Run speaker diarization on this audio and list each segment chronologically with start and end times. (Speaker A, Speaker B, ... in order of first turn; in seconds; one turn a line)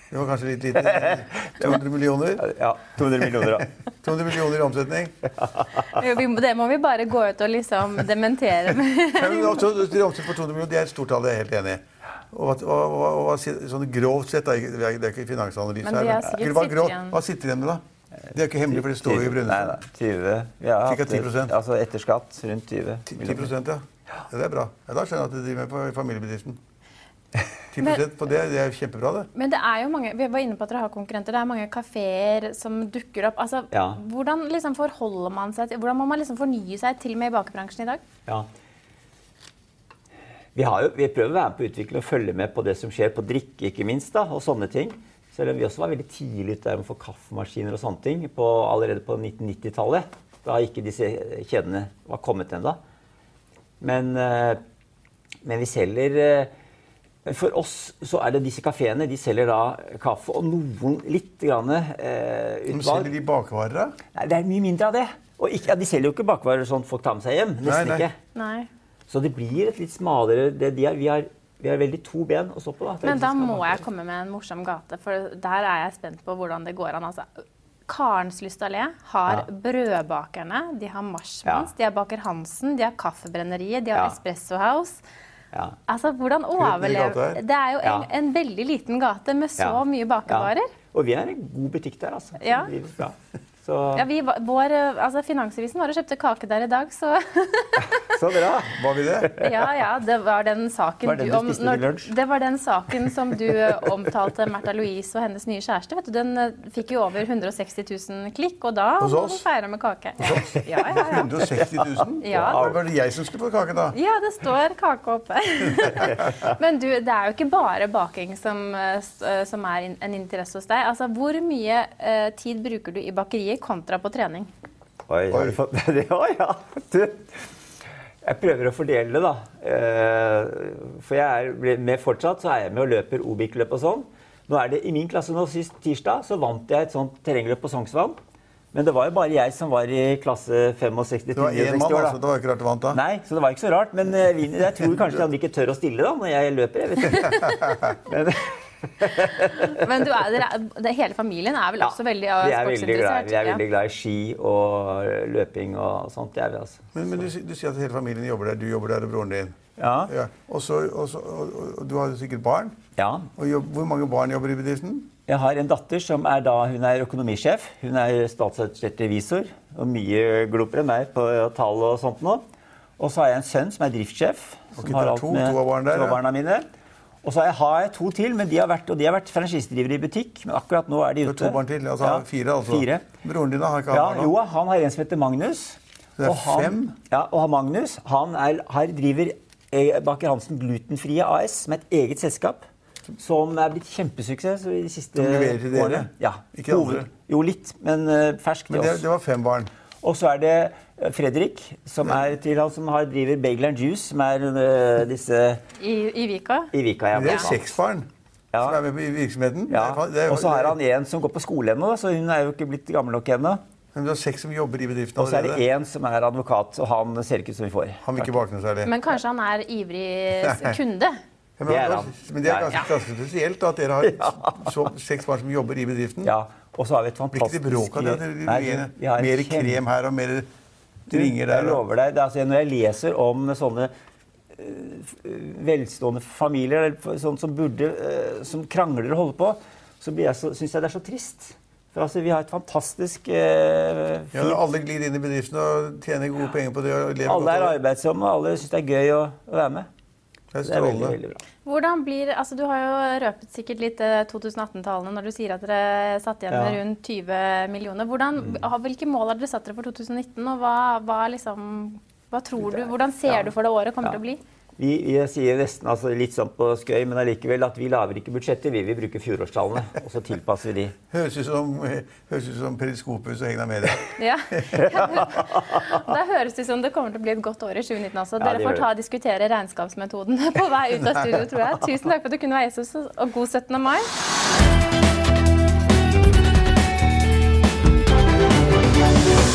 Speaker A: 0.1-2.5
Speaker B: 0.8-1.8
Speaker B: 2.4-3.7
Speaker A: 4.0-5.1
Speaker C: 5.8-9.7
Speaker A: 9.2-19.8
Speaker C: 15.8-17.2
Speaker B: 18.7-23.5
Speaker A: 20.8-21.5
Speaker A: 23.1-26.6
Speaker A: 27.7-29.3
Speaker C: 29.4-38.0
Speaker B: 33.7-34.0
Speaker B: 40.5-52.8
Speaker B: 53.8-54.6
Speaker B: 55.4-56.5
Speaker B: 57.2-63.1
Speaker A: 62.7-64.0
Speaker B: 64.1-68.2
Speaker A: 67.6-68.1
Speaker C: 68.3-68.7
Speaker B: 69.1-73.8
Speaker C: 73.0-77.3
Speaker C: 77.9-85.0
Speaker C: 85.9-90.7
Speaker A: 86.6-87.4
Speaker B: 89.6-94.1
Speaker C: 92.4-92.7
Speaker C: 94.0-98.2
Speaker B: 97.9-99.5
Speaker A: 98.8-99.3
Speaker C: 99.4-111.3
Speaker B: 101.0-102.1
Speaker A: 109.0-109.5
Speaker A: 110.2-114.0
Speaker B: 110.8-112.8
Speaker C: 112.2-112.8
Speaker C: 113.9-124.5
Speaker B: 116.0-116.5
Speaker B: 125.1-127.3
Speaker B: 128.2-138.2
Speaker B: 138.7-142.2
Speaker A: 141.3-143.0
Speaker B: 142.9-149.8
Speaker C: 149.5-153.6
Speaker B: 151.8-157.3
Speaker A: 156.9-159.6
Speaker B: 159.8-160.1
Speaker A: 160.1-162.8
Speaker B: 163.0-163.3
Speaker A: 163.4-165.1
Speaker B: 165.3-172.4
Speaker B: 173.0-176.7
Speaker A: 174.8-176.2
Speaker B: 177.2-183.1
Speaker A: 181.2-184.4
Speaker B: 183.9-192.7
Speaker A: 186.2-187.0
Speaker B: 193.2-199.1
Speaker A: 195.2-197.1
Speaker A: 198.7-199.7
Speaker B: 200.0-205.6
Speaker C: 205.8-206.7
Speaker B: 206.7-207.7
Speaker A: 207.1-208.1
Speaker B: 208.5-208.8
Speaker A: 208.6-210.8
Speaker B: 209.7-213.6
Speaker A: 213.9-215.6
Speaker B: 215.2-218.3
Speaker A: 218.0-218.9
Speaker C: 218.8-221.1
Speaker A: 220.4-220.8
Speaker A: 221.6-226.3
Speaker B: 221.7-222.9
Speaker B: 224.0-224.9
Speaker B: 226.2-229.8
Speaker A: 227.3-230.5
Speaker A: 231.1-231.8
Speaker B: 231.1-233.9
Speaker B: 234.6-244.6
Speaker A: 244.3-247.8
Speaker B: 247.2-249.9
Speaker A: 250.5-251.2
Speaker B: 250.6-251.4
Speaker C: 251.7-264.4
Speaker B: 256.5-256.8
Speaker B: 262.6-263.5
Speaker B: 264.8-270.9
Speaker A: 271.1-274.6
Speaker C: 274.2-284.1
Speaker B: 278.4-278.9